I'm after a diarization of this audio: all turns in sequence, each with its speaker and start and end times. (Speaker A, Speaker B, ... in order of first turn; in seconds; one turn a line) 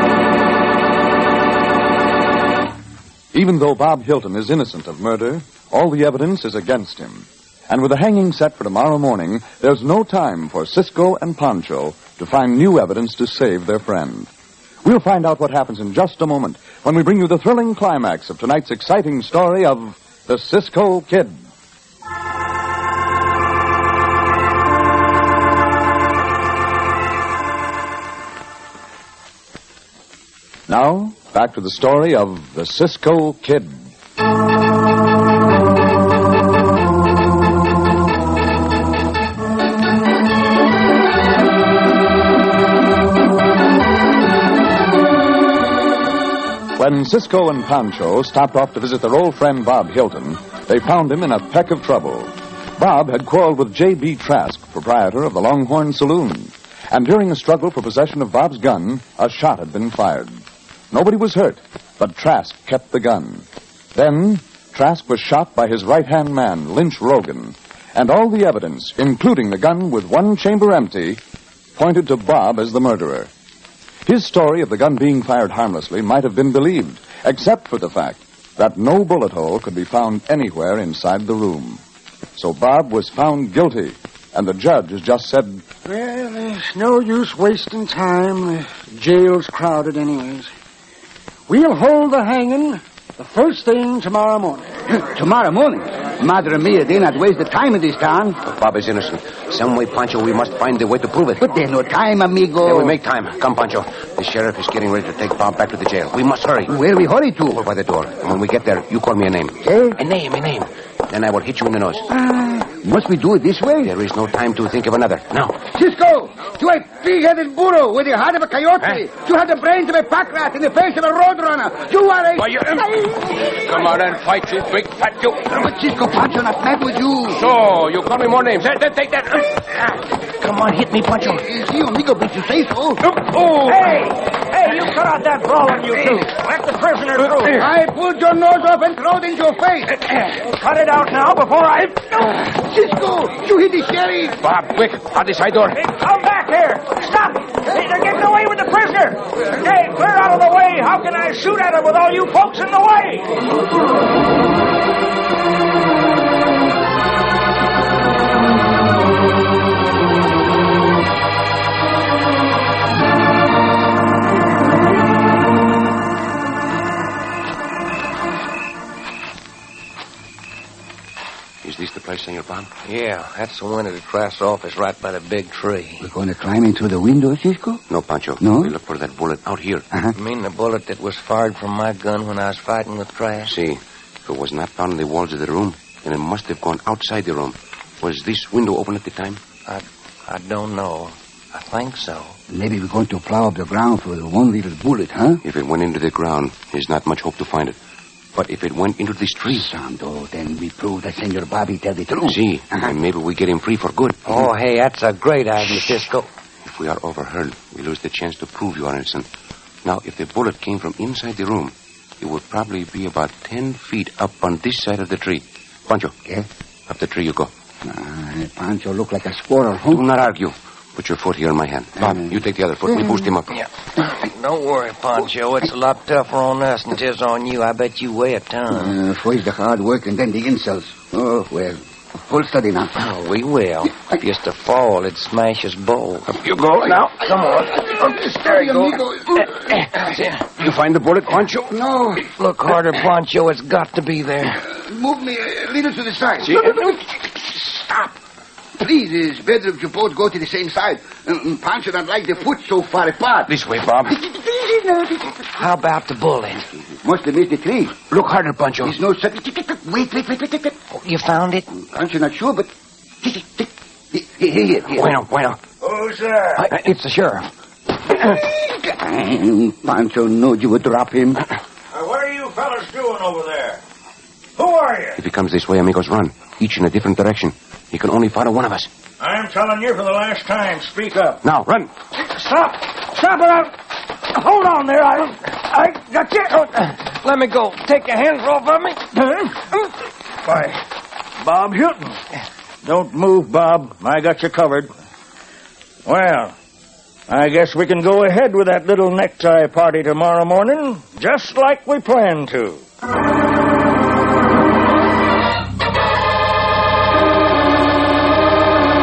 Speaker A: 3.3-14.3
Speaker A: 14.8-21.4
Speaker A: 30.7-33.8
Speaker A: 46.8-71.2
Speaker A: 71.8-73.3
Speaker A: 74.0-81.8
Speaker A: 82.3-85.6
Speaker B: 85.8-90.5
Speaker B: 91.5-94.7
Speaker C: 94.9-98.4
Speaker D: 98.5-101.4
Speaker C: 101.4-103.0
Speaker D: 102.6-106.7
Speaker C: 106.7-107.6
Speaker D: 107.5-112.1
Speaker C: 109.6-110.0
Speaker C: 112.1-113.9
Speaker D: 113.8-115.6
Speaker C: 115.7-122.8
Speaker D: 122.4-125.6
Speaker C: 125.5-127.4
Speaker D: 127.3-131.4
Speaker C: 131.2-133.0
Speaker E: 133.6-137.7
Speaker C: 137.5-140.1
Speaker E: 140.3-142.3
Speaker C: 142.4-144.4
Speaker D: 144.4-145.8
Speaker E: 145.8-153.3
Speaker D: 171.6-172.7
Speaker F: 172.8-176.1
Speaker C: 176.0-177.8
Speaker D: 177.9-179.8
Speaker C: 178.4-178.7
Speaker F: 180.2-183.5
Speaker D: 183.5-189.4
Speaker F: 189.7-192.3
Speaker C: 192.5-195.4
Speaker D: 195.4-197.8
Speaker D: 198.3-199.7
Speaker C: 199.5-202.9
Speaker D: 202.3-204.3
Speaker F: 204.3-206.3
Speaker D: 206.6-209.3
Speaker D: 209.8-216.1
Speaker D: 216.9-217.5
Speaker C: 217.8-220.0
Speaker D: 219.9-223.5
Speaker C: 222.0-222.3
Speaker C: 222.9-223.2
Speaker F: 223.5-228.9
Speaker C: 228.7-232.9
Speaker F: 233.0-236.4
Speaker D: 236.4-237.7
Speaker C: 237.5-239.7
Speaker F: 238.4-238.9
Speaker F: 239.9-240.4
Speaker D: 240.6-241.8
Speaker C: 241.7-242.2
Speaker F: 242.2-244.6
Speaker C: 244.7-248.1
Speaker D: 246.4-246.9
Speaker C: 248.8-253.5
Speaker D: 253.5-254.2
Speaker C: 254.1-255.4
Speaker F: 255.5-256.7
Speaker C: 257.0-258.0
Speaker D: 258.1-258.9
Speaker C: 258.8-260.7
Speaker F: 260.9-261.6
Speaker C: 261.7-262.7
Speaker C: 263.2-265.1
Speaker D: 264.9-265.6
Speaker E: 265.8-266.7
Speaker F: 266.6-267.5
Speaker C: 268.1-271.5
Speaker E: 271.9-273.8
Speaker E: 274.6-275.2
Speaker D: 275.2-278.9
Speaker E: 279.2-281.4
Speaker D: 281.4-281.9
Speaker E: 282.1-283.8
Speaker E: 284.3-286.9
Speaker F: 287.2-289.0
Speaker E: 289.1-289.6
Speaker E: 290.4-290.8
Speaker E: 291.4-292.2
Speaker E: 292.8-294.9
Speaker E: 296.1-296.5
Speaker E: 297.3-302.8